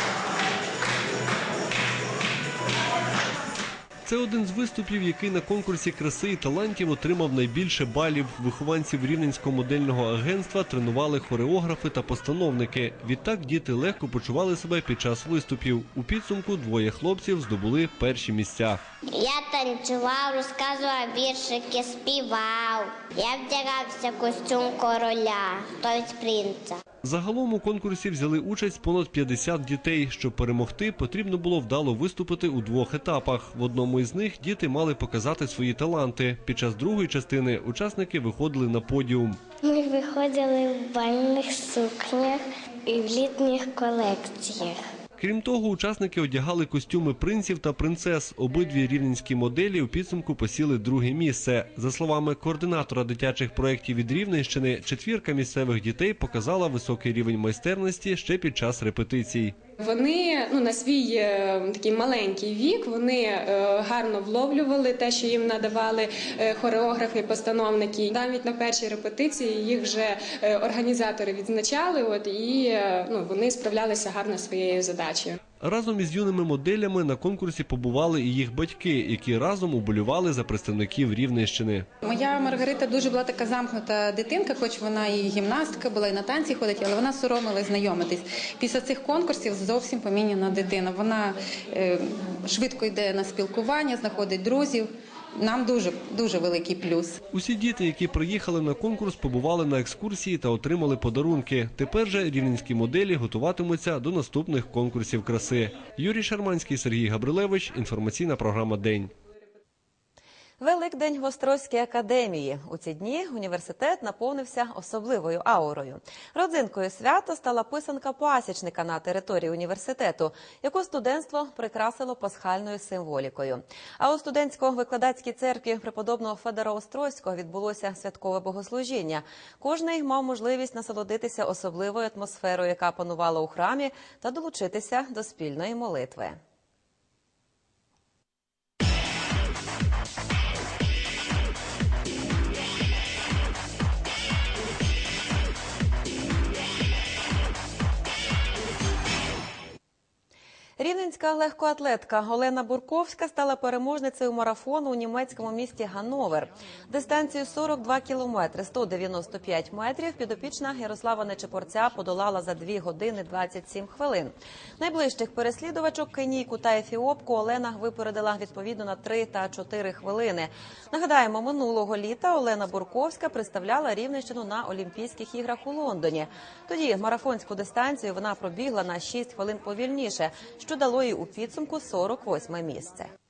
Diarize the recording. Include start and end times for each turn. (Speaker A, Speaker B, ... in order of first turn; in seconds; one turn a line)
Speaker A: 4.0-18.8
Speaker B: 19.1-26.8
Speaker A: 27.0-39.4
Speaker B: 39.6-44.8
Speaker A: 45.2-59.5
Speaker C: 59.8-75.4
Speaker A: 75.6-81.9
Speaker D: 82.0-97.2
Speaker A: 97.3-109.1
Speaker E: 110.6-136.4
Speaker E: 150.8-183.1